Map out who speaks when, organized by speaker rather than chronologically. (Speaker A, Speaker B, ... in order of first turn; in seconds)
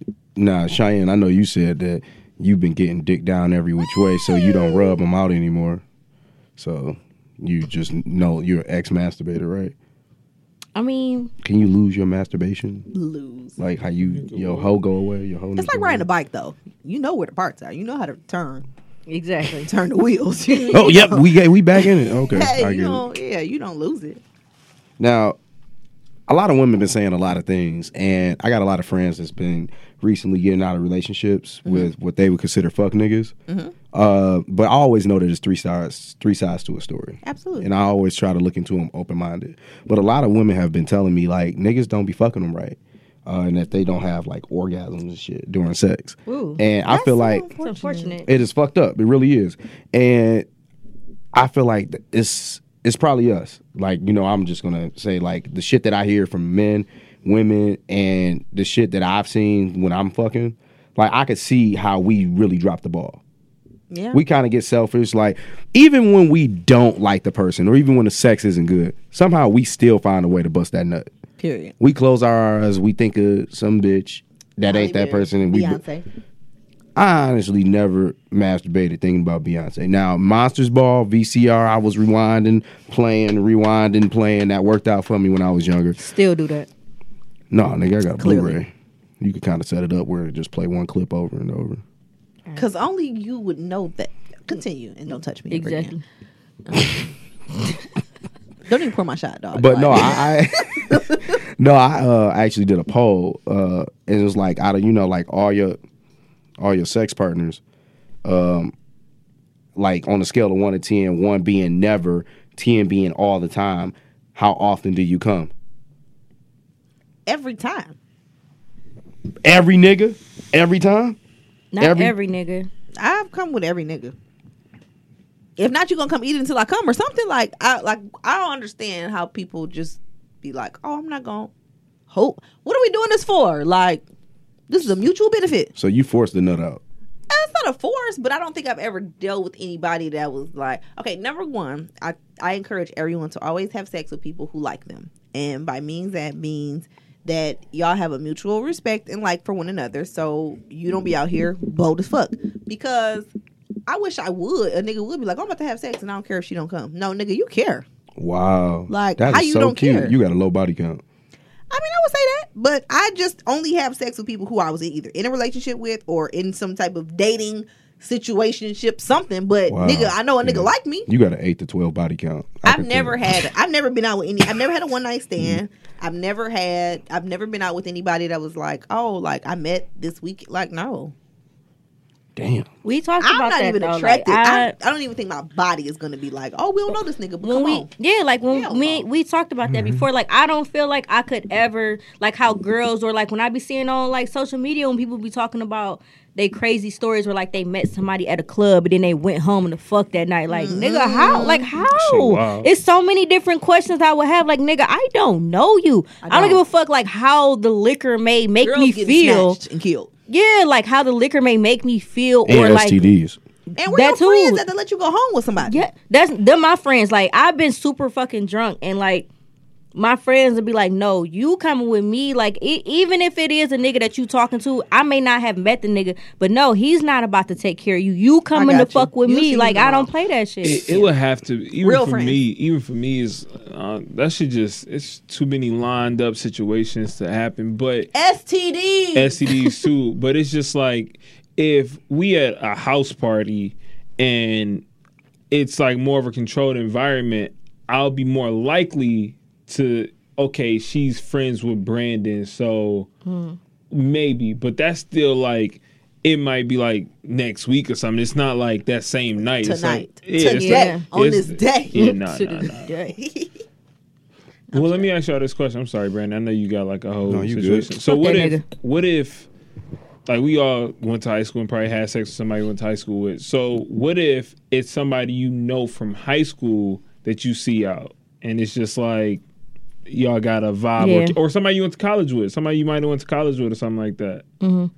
Speaker A: 0.3-5.8, 6.6-9.7, 11.4-12.9, 13.6-16.0, 20.7-23.0, 25.0-25.4, 26.3-33.3, 33.9-47.5, 48.2-50.5, 51.3-63.2, 64.1-71.0, 71.8-75.8, 76.9-86.0, 87.5-91.8, 99.5-105.8, 106.6-107.6, 108.2-108.7, 109.8-115.5, 119.4-121.2, 121.8-122.1, 135.8-136.8, 158.2-161.0, 169.7-173.4, 182.3-182.7, 189.7-190.1, 212.4-213.4, 267.3-267.9
Speaker B: 4.1-4.9, 12.9-13.6, 15.6-18.7, 19.6-24.2, 31.6-31.9, 33.5-33.7, 37.2-37.7, 46.9-48.2, 63.9-64.2, 71.4-71.7, 74.7-76.0, 88.2-88.6, 92.5-95.9, 96.7-97.1, 98.6-101.4, 117.3-118.0, 123.0-124.1, 125.6-131.5, 132.1-134.0, 134.7-135.7, 137.3-153.3, 153.9-157.8, 158.9-160.1, 161.7-171.1, 172.6-181.1, 183.2-187.9, 188.5-189.0, 200.5-201.7, 206.2-206.6, 208.6-210.1, 213.8-215.8, 228.5-230.1, 231.8-232.4, 238.1-239.4, 259.6-262.1, 263.1-263.6, 264.7-265.1
Speaker C: 10.7-11.3, 19.1-19.7, 46.2-46.6, 47.6-48.3, 86.0-86.7, 95.5-96.0, 121.7-122.7, 182.8-184.7, 187.4-209.6, 210.3-213.1, 213.8-214.6, 215.7-219.3, 219.9-231.1, 253.2-253.6, 260.4-261.0, 261.9-263.1, 268.0-268.6, 281.0-281.4, 284.6-284.9
Speaker D: 14.0-14.7, 201.9-202.7, 230.6-238.1, 239.1-244.8, 245.5-253.1, 253.9-262.9, 264.7-269.4, 270.3-279.4, 280.1-284.4